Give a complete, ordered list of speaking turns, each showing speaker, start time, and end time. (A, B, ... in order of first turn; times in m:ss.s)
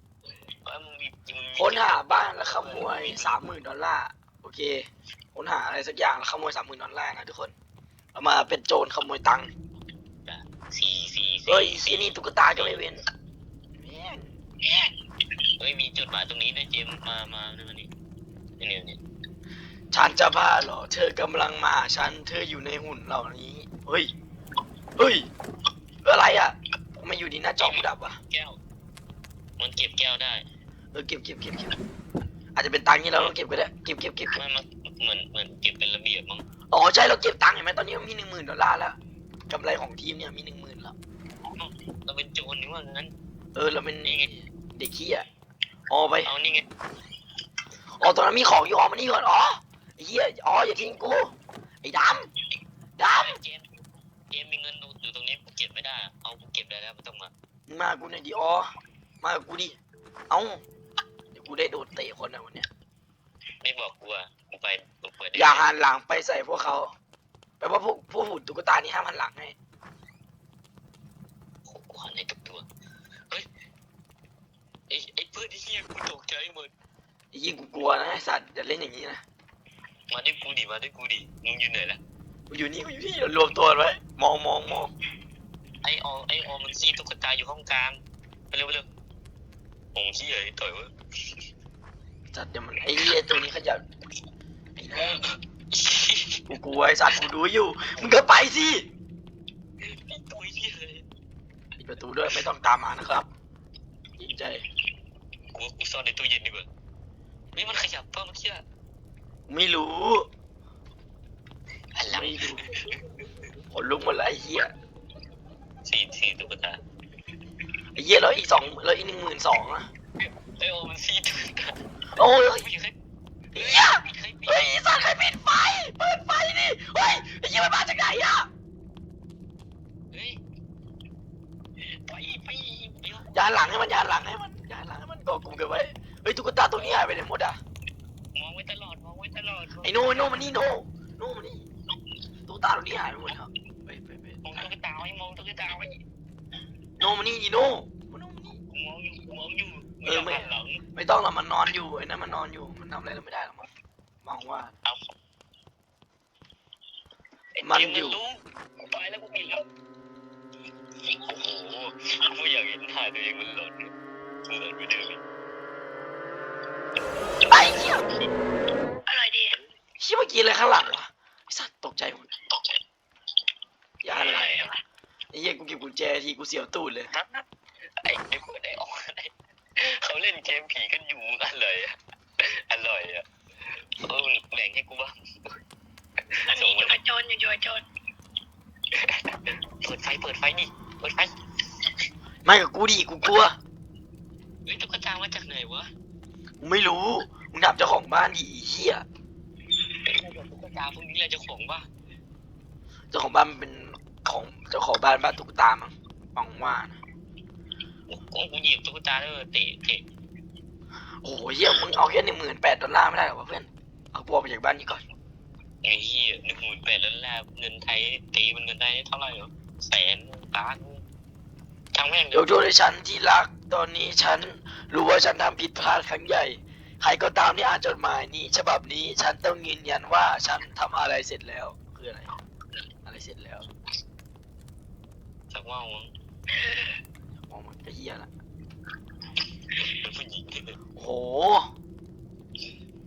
0:00.6-0:03.3 A
0:01.6-0:07.5 B
0:08.1-0:09.5 B
0:10.2-0:12.8 A
0:11.5-0:13.0 B
0:13.8-0:14.3 B
0:15.6-0:17.9 A
0:18.6-0:19.0 A
0:19.9-0:24.1 B
0:25.0-0:25.3 B
0:26.0-0:28.2 B
0:27.6-0:28.6 A
0:29.6-0:30.4 A
0:30.9-0:31.8 B
0:32.6-0:34.4 B
0:34.3-0:36.4 A
0:36.7-0:39.0 B
0:39.5-0:40.9 B
0:41.5-0:43.1 A
0:43.5-0:44.2 B
0:44.0-0:44.5 A
0:44.7-0:45.2 B
0:45.9-0:46.3 B
0:46.2-0:46.6 A
0:48.0-0:52.3 B
0:53.0-0:53.4 B
0:53.2-0:57.3 A
0:57.7-0:58.7 B
0:59.2-0:59.8 B
1:00.3-1:00.6 B
1:01.3-1:02.7 B
1:03.6-1:05.7 A
1:05.3-1:06.9 B
1:07.6-1:09.5 B
1:11.6-1:12.6 A
1:14.9-1:16.7 A
1:17.3-1:19.2 B
1:20.1-1:22.0 A
1:22.5-1:24.9 B
1:25.8-1:28.9 A
1:29.9-1:30.9 A
1:32.3-1:33.8 B
1:34.8-1:35.3 B
1:35.7-1:36.4 A
1:36.5-1:38.9 B
1:39.8-1:41.0 A
1:41.8-1:43.3 B
1:44.2-1:44.6 B
1:45.5-1:46.7 A
1:47.5-1:48.6 A
1:49.5-1:50.3 B
1:51.9-1:53.1 A
1:52.1-1:52.6 B
1:53.7-1:54.7 B
1:55.8-1:56.8 A
1:58.0-1:59.9 B
2:00.2-2:01.8 A
2:02.2-2:02.6 B
2:02.5-2:03.0 A
2:03.5-2:08.5 B
2:03.5-2:04.7 A
2:10.1-2:10.4 A
2:11.8-2:13.4 A
2:13.3-2:17.6 B
2:18.3-2:20.3 A
2:19.8-2:21.7 B
2:22.5-2:24.5 B
2:24.4-2:26.0 A
2:27.0-2:28.6 B
2:28.7-2:30.8 A
2:30.0-2:33.7 B
2:34.2-2:34.7 B
2:34.8-2:35.1 A
2:37.6-2:39.7 A
2:37.6-2:38.2 B
2:41.0-2:43.9 A
2:44.5-2:45.2 A
2:47.5-2:48.0 B
2:49.1-2:49.6 C
2:50.0-2:52.3 B
2:54.0-2:54.5 B
2:54.1-2:54.7 A
2:54.2-2:54.8 C
2:55.3-2:57.1 B
2:57.1-2:57.4 A
2:58.0-3:03.2 A
3:04.0-3:05.5 A
3:06.3-3:07.0 A
3:06.5-3:07.8 C
3:08.9-3:11.3 A
3:12.4-3:13.6 B
3:14.6-3:15.9 A
3:16.6-3:19.0 B
3:20.0-3:21.9 A
3:23.1-3:27.0 B
3:28.1-3:30.0 A
3:31.2-3:35.0 B
3:35.8-3:41.0 A
3:41.9-3:42.5 A
3:42.3-3:52.3 B
3:53.0-3:53.7 B
3:55.5-3:56.1 A
3:56.5-3:57.0 C
3:57.5-3:58.3 B
3:59.7-4:00.7 A
4:01.0-4:01.7 B